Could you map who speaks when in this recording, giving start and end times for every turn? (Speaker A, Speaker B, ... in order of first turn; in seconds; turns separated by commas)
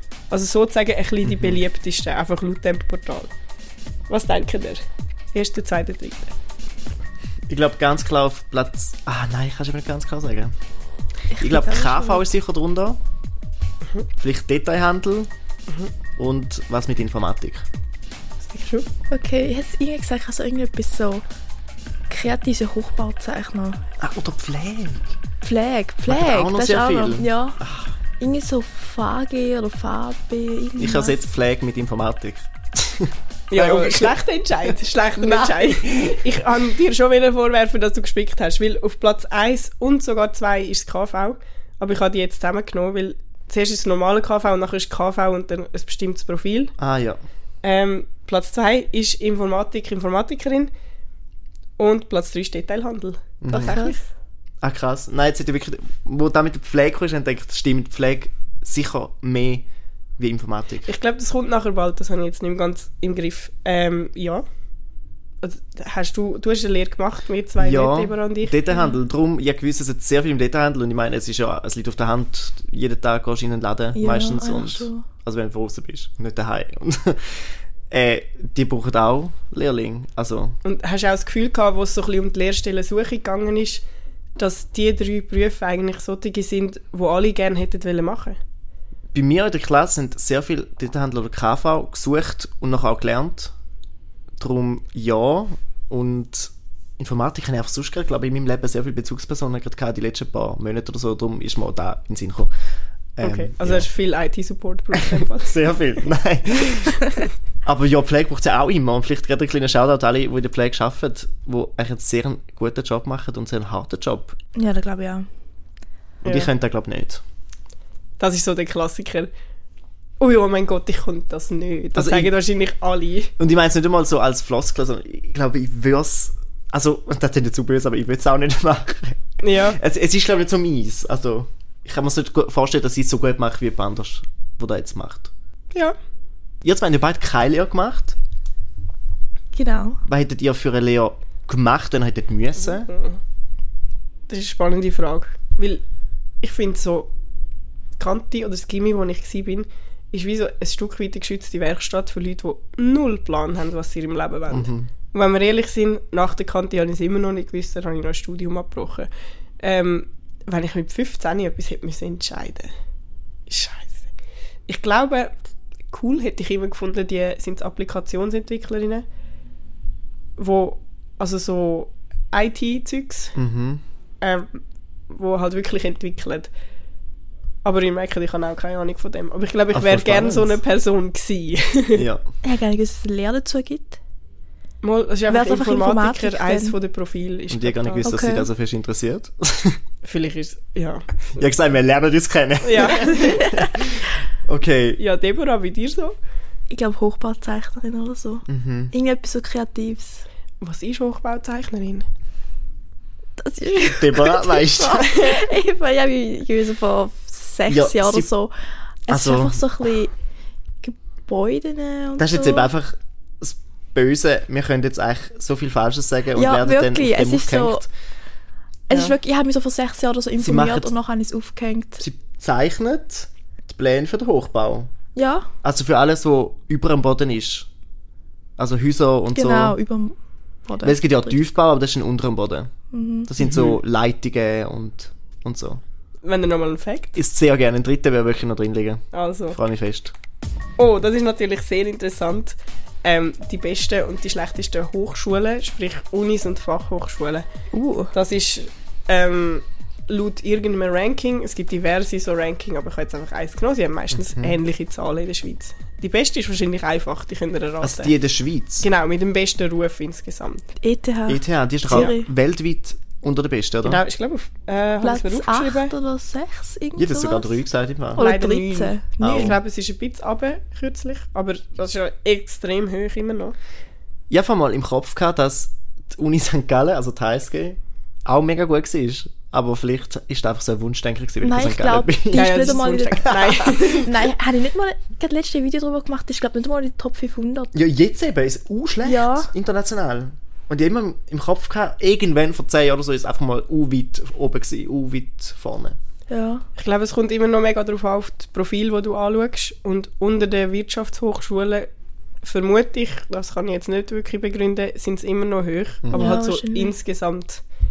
Speaker A: 0.3-3.3, Speaker B: 1.2-1.6, Speaker A: 4.1-4.8, Speaker A: 5.3-6.3, Speaker B: 7.5-10.5, Speaker C: 11.3-12.2, Speaker B: 11.4-13.0, Speaker B: 14.2-15.3, Speaker B: 16.2-17.6, Speaker A: 18.4-18.9, Speaker C: 19.1-21.2, Speaker C: 22.1-23.8, Speaker B: 24.0-25.2, Speaker C: 25.4-27.6, Speaker B: 26.1-27.9, Speaker C: 28.2-31.2, Speaker B: 30.8-34.1, Speaker A: 33.5-46.7, Speaker C: 35.2-35.7, Speaker B: 35.8-36.2, Speaker B: 46.8-47.2, Speaker A: 47.6-50.7, Speaker A: 51.8-54.0, Speaker B: 53.4-53.8, Speaker C: 53.6-54.0, Speaker B: 54.6-59.6, Speaker B: 60.2-60.9, Speaker A: 60.9-64.4, Speaker A: 65.4-68.6, Speaker B: 67.6-80.5, Speaker C: 73.9-75.0, Speaker A: 80.6-83.8, Speaker A: 84.4-88.4, Speaker B: 89.1-93.5, Speaker B: 94.4-102.5, Speaker B: 103.2-103.9, Speaker A: 103.2-105.8, Speaker B: 104.9-107.1, Speaker B: 107.6-114.3, Speaker C: 114.5-115.2, Speaker A: 116.2-116.5, Speaker B: 116.2-117.2, Speaker A: 118.2-119.3, Speaker A: 120.2-123.3, Speaker B: 122.0-122.3, Speaker B: 123.4-135.3, Speaker A: 129.4-129.8, Speaker B: 136.6-138.2, Speaker C: 139.5-140.0, Speaker B: 140.0-142.9, Speaker A: 142.7-143.2, Speaker A: 144.3-145.8, Speaker A: 146.4-147.1, Speaker A: 148.0-159.1, Speaker B: 154.5-154.9, Speaker A: 159.6-162.7, Speaker A: 163.5-164.0, Speaker A: 164.7-165.3, Speaker A: 165.9-169.0, Speaker A: 170.4-173.3, Speaker B: 173.3-173.8, Speaker A: 174.2-176.5, Speaker A: 177.6-182.1, Speaker B: 179.7-180.6, Speaker B: 181.9-182.2, Speaker C: 182.4-184.0, Speaker A: 184.8-188.1, Speaker C: 185.3-186.7, Speaker B: 187.5-189.8, Speaker C: 188.0-188.5, Speaker A: 190.0-191.0, Speaker B: 191.3-195.0, Speaker A: 192.6-193.4, Speaker C: 193.0-193.8, Speaker A: 195.0-196.1, Speaker C: 196.7-200.2, Speaker B: 198.5-198.9, Speaker A: 200.6-202.0, Speaker C: 203.4-208.5, Speaker B: 203.8-205.3, Speaker A: 205.0-205.4, Speaker B: 207.7-208.3, Speaker C: 209.1-210.1, Speaker B: 209.1-209.6, Speaker C: 210.8-212.7, Speaker B: 212.2-217.9, Speaker C: 216.3-217.8, Speaker C: 218.9-222.0, Speaker B: 218.9-219.2, Speaker B: 220.4-220.9, Speaker B: 222.0-224.9, Speaker C: 225.2-225.5, Speaker B: 225.6-227.7, Speaker B: 228.6-229.8, Speaker C: 229.3-230.1, Speaker C: 230.7-231.4, Speaker B: 230.8-232.7, Speaker C: 232.9-233.3, Speaker B: 233.3-235.8, Speaker A: 233.4-233.7, Speaker A: 236.2-237.2, Speaker B: 237.2-240.1, Speaker A: 239.1-239.6, Speaker A: 240.8-247.4, Speaker C: 247.7-248.1, Speaker A: 248.1-258.1, Speaker B: 254.1-254.6, Speaker B: 257.8-258.9, Speaker A: 258.8-260.6, Speaker C: 260.8-262.3, Speaker B: 261.3-264.0, Speaker A: 263.8-265.9, Speaker C: 265.0-267.6, Speaker B: 267.0-268.2, Speaker C: 268.1-269.6, Speaker A: 268.2-273.6, Speaker B: 269.2-269.6, Speaker B: 274.3-283.9, Speaker C: 281.4-287.7, Speaker A: 282.3-284.2, Speaker B: 287.7-296.0, Speaker C: 289.0-289.5, Speaker C: 296.3-296.6, Speaker A: 296.8-301.9, Speaker A: 302.4-307.6, Speaker B: 306.0-306.3, Speaker C: 306.1-306.9